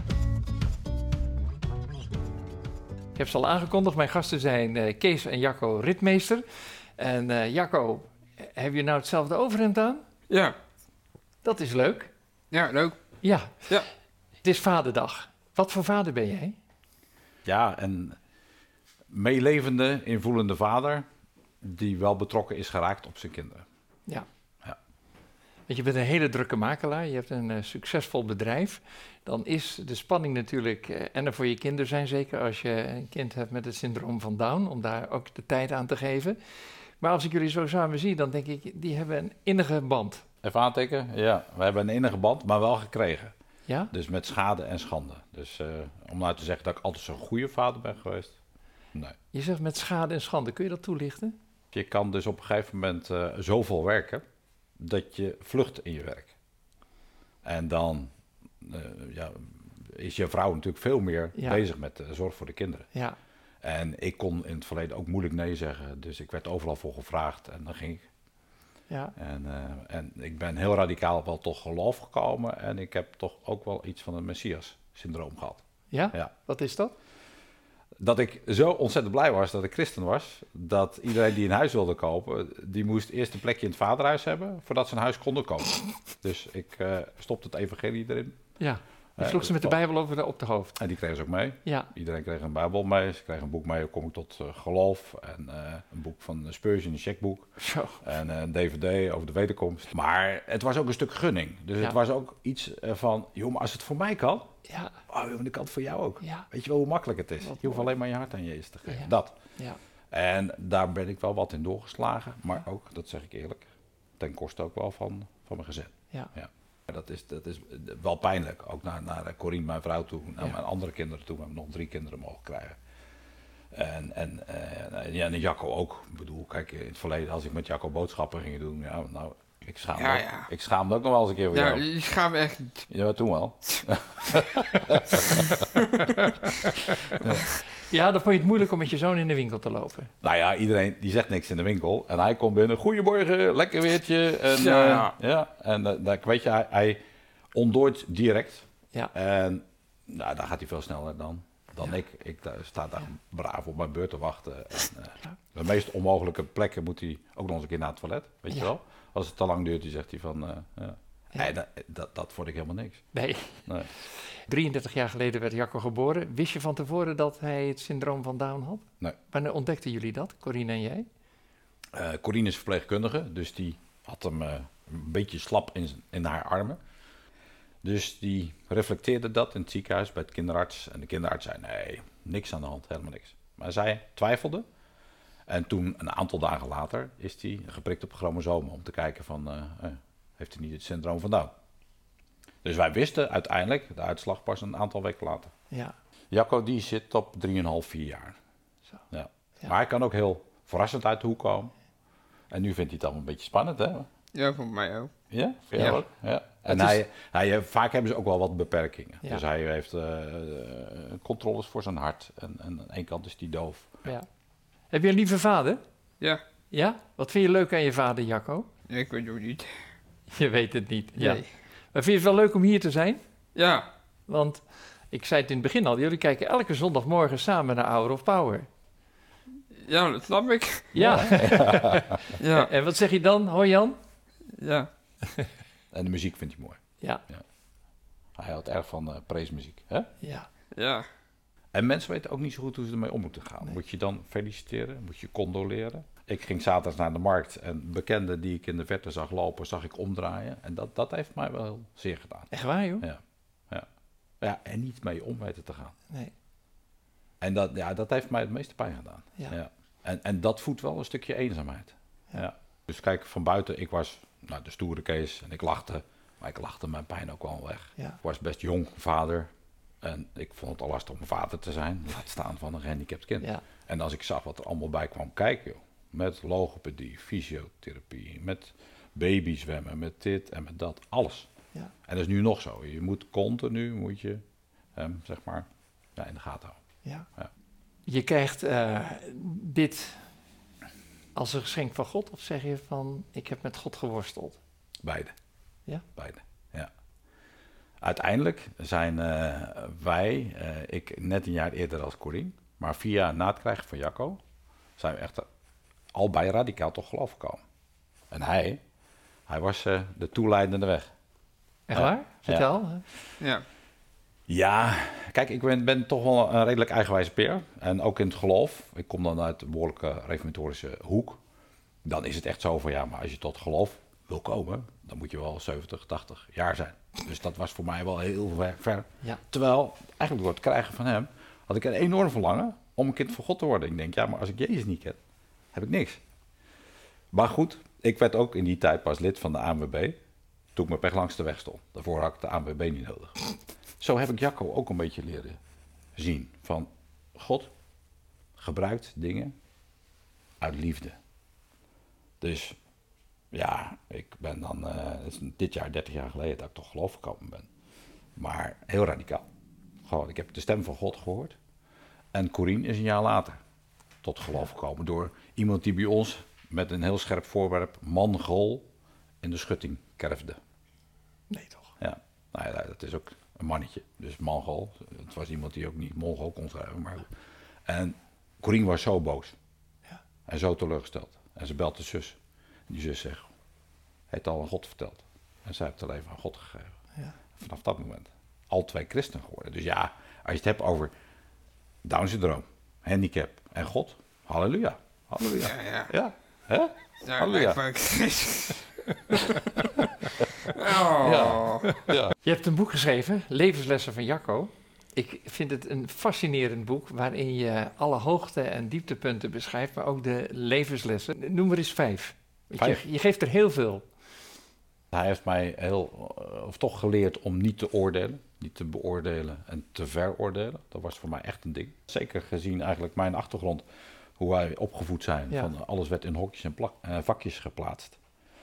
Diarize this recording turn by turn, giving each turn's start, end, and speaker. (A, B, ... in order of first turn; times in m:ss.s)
0:03.2-0:06.5 A
0:07.0-0:10.0 A
0:10.3-0:10.6 B
0:11.4-0:12.1 A
0:12.5-0:13.0 B
0:13.2-0:13.7 A
0:14.4-0:16.6 A
0:17.4-0:18.2 C
0:19.1-0:21.1 C
0:21.6-0:23.6 C
0:25.7-0:36.4 A
0:37.0-0:40.2 A
0:40.4-0:43.3 C
0:43.7-0:43.9 A
0:43.9-0:48.4 C
0:49.3-0:51.4 A
0:51.7-0:54.2 C
0:54.8-0:56.3 C
0:57.4-1:02.9 C
1:01.4-1:01.6 A
1:03.6-1:08.0 C
1:08.9-1:09.2 A
1:09.2-1:16.3 C
1:15.9-1:17.0 A
1:18.0-1:28.4 C
1:28.6-1:30.8 A
1:29.2-1:29.8 C
1:30.8-1:44.6 C
1:31.6-1:31.9 A
1:37.6-1:38.0 A
1:44.7-1:44.9 A
1:45.1-1:49.4 C
1:46.2-1:46.5 A
1:48.9-1:49.8 A
1:50.1-1:53.7 C
1:54.2-2:02.8 C
2:03.7-2:11.9 C
2:10.0-2:10.5 B
2:11.5-2:12.9 B
2:12.9-2:15.5 C
2:15.2-2:16.7 B
2:17.2-2:20.1 A
2:20.2-2:27.0 C
2:24.6-2:25.1 B
2:27.6-2:43.0 C
2:43.1-2:43.7 A
2:44.4-2:51.1 A
2:51.9-2:56.8 C
2:57.8-3:04.6 C
3:05.5-3:11.5 C
3:12.6-3:15.5 C
3:16.3-3:18.4 C
3:19.1-3:21.7 C
3:22.5-3:24.1 C
3:24.3-3:25.1 B
3:25.3-3:34.1 C
3:26.7-3:27.0 A
3:34.9-3:35.8 A
3:36.7-3:38.7 A
3:38.9-3:39.8 B
3:40.3-3:43.2 A
3:41.2-3:41.5 B
3:43.6-3:43.9 B
3:44.3-3:48.7 A
3:49.7-3:51.1 B
3:50.9-3:54.0 A
3:51.0-3:52.2 C
3:52.4-3:52.7 B
3:54.5-3:54.9 B
3:55.9-3:57.4 C
3:58.4-4:00.1 C
4:00.2-4:00.5 A
4:00.8-4:01.1 B
4:01.7-4:13.9 C
4:12.5-4:13.1 A
4:14.4-4:16.0 C
4:17.4-4:29.5 C
4:30.0-4:41.5 C
4:42.1-4:44.4 C
4:45.0-4:46.8 C
4:48.1-4:50.2 A
4:51.4-4:54.6 A
4:55.0-4:55.3 C
4:56.2-4:56.9 C
4:58.0-5:04.4 C
5:05.0-5:05.5 C
5:06.1-5:07.6 C
5:08.3-5:08.8 C
5:09.5-5:11.1 C
5:11.9-5:13.0 A
5:11.9-5:12.7 C
5:13.4-5:13.6 B
5:14.5-5:21.4 C
5:22.0-5:35.2 C
5:35.7-5:36.2 C
5:37.3-5:40.2 C
5:40.8-5:43.4 C
5:44.0-5:45.6 C
5:46.2-5:47.7 C
5:48.6-5:49.5 C
5:50.6-5:51.2 C
5:52.4-5:52.8 C
5:53.5-5:57.7 C
5:58.4-5:59.4 C
6:00.0-6:01.6 C
6:02.3-6:03.6 C
6:04.2-6:08.8 C
6:09.4-6:10.6 C
6:11.5-6:11.9 A
6:12.0-6:17.3 C
6:17.9-6:19.6 C
6:20.5-6:22.4 C
6:22.9-6:23.4 C
6:24.3-6:27.0 C
6:27.6-6:31.1 C
6:32.0-6:37.8 C
6:35.6-6:36.1 B
6:37.2-6:39.6 B
6:40.7-6:41.9 B
6:41.2-6:42.4 C
6:42.0-6:54.1 A
6:52.8-6:53.0 C
6:55.1-7:03.8 C
7:04.4-7:08.2 C